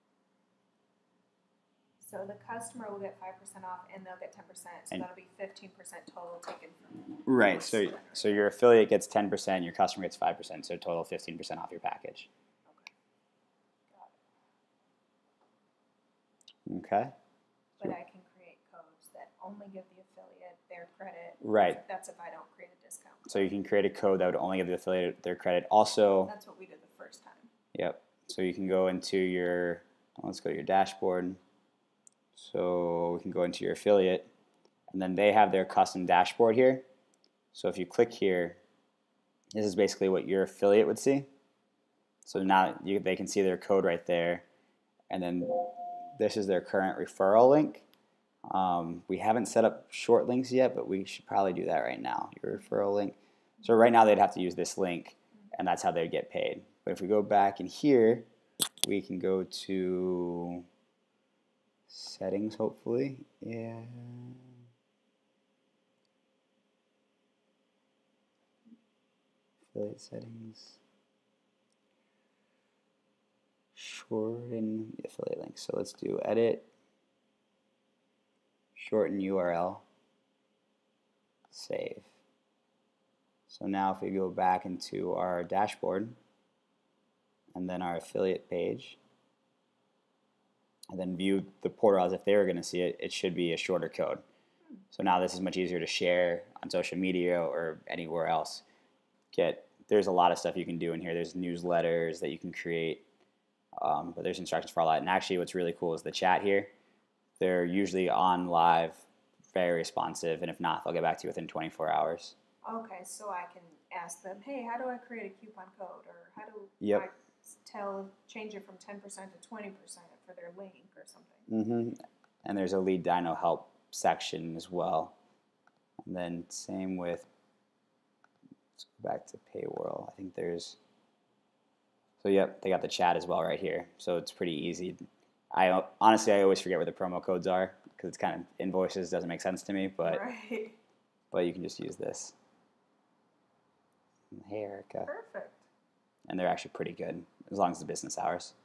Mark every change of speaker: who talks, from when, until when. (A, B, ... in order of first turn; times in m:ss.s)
0:02.0-0:08.4 A
0:07.2-0:12.3 B
0:12.6-0:12.9 A
0:13.9-0:14.1 A
0:16.6-0:17.1 B
0:17.8-0:23.5 A
0:21.4-0:21.8 B
0:23.3-0:26.3 B
0:26.2-0:27.5 A
0:27.7-0:31.4 B
0:32.3-0:34.3 B
0:34.9-0:36.8 B
0:37.5-0:38.6 B
0:39.5-0:41.3 B
0:42.2-0:44.4 B
0:45.1-0:47.8 B
0:48.5-0:58.3 B
0:58.8-1:00.6 B
1:01.9-1:04.5 B
1:09.7-1:10.8 B
1:13.7-1:16.7 B
1:18.8-1:19.8 B
1:21.5-1:22.1 B
1:23.5-1:26.2 B
1:27.5-1:29.0 B
1:30.9-1:34.2 B
1:34.9-1:38.6 B
1:39.3-1:43.0 B
1:43.8-1:46.7 B
1:47.4-1:52.4 B
1:52.6-2:01.5 A
1:56.8-1:57.0 B
2:01.5-2:05.1 B
2:06.0-2:07.3 B
2:08.8-2:10.8 B
2:12.2-2:20.2 B
2:20.0-2:20.8 A
2:21.3-2:22.3 B
2:24.3-2:25.1 B
2:25.0-2:25.6 A
2:26.3-2:28.5 B